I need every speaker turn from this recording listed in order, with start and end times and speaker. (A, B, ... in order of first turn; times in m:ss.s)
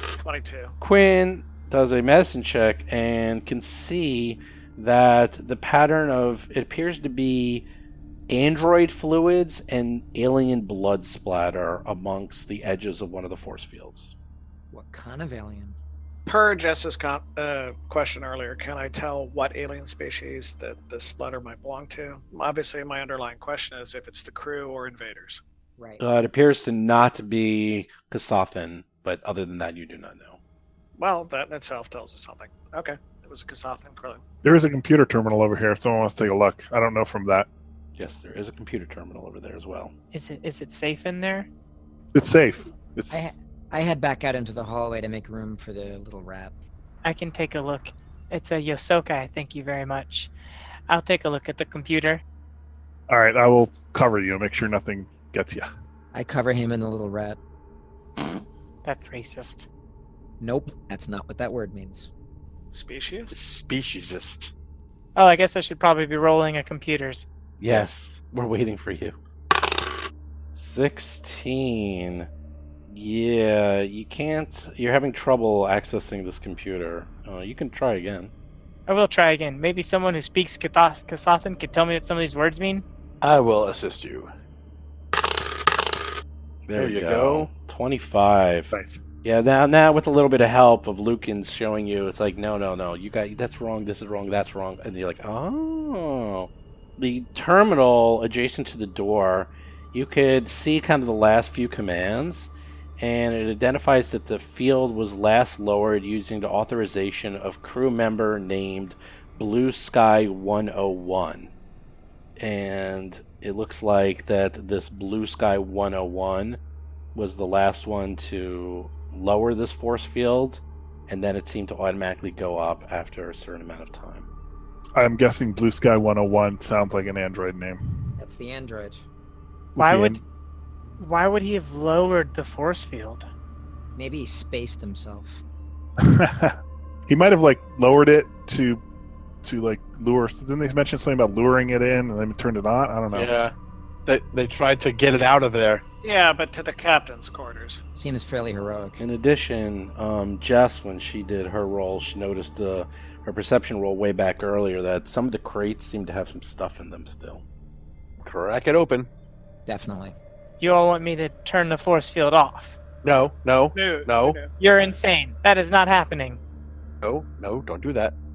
0:00.2-0:00.7 A
0:00.8-0:07.7 B
0:08.3-0:14.2 B
0:14.7-0:15.8 C
0:16.3-0:25.4 A
0:26.0-0:30.4 B
0:31.0-0:34.2 A
0:34.4-0:37.5 D
0:38.0-0:39.9 B
0:40.1-0:41.5 E
0:42.1-0:43.4 D
0:43.1-0:46.5 C
0:47.0-0:50.3 E
0:50.9-0:52.2 E
0:53.1-0:55.7 D
0:56.1-0:57.4 C
0:58.8-0:59.7 E
1:00.4-1:02.1 C
1:02.7-1:03.4 A
1:03.3-1:04.5 F
1:05.2-1:07.3 E
1:07.6-1:09.2 B
1:07.7-1:08.1 F
1:10.6-1:12.3 B
1:12.9-1:18.3 B
1:18.9-1:22.8 E
1:23.2-1:24.3 F
1:26.7-1:51.5 B
1:26.8-1:27.5 F
1:28.7-1:29.0 D
1:52.4-1:56.6 B
1:57.2-2:04.3 B
2:05.0-2:08.1 D
2:08.2-2:09.0 C
2:09.8-2:10.2 D
2:09.8-2:10.2 E
2:11.0-2:13.3 E
2:14.0-2:15.4 C
2:16.0-2:16.6 D
2:17.1-2:18.8 D
2:19.4-2:23.3 D
2:23.1-2:23.5 F
2:24.1-2:25.8 F
2:26.0-2:27.8 A
2:28.0-2:29.0 C
2:29.0-2:37.4 B
2:38.2-2:39.1 F
2:39.7-2:40.2 C
2:40.6-2:42.8 E
2:43.0-2:44.4 F
2:43.7-2:44.5 A
2:44.5-2:46.4 E
2:47.0-2:48.1 F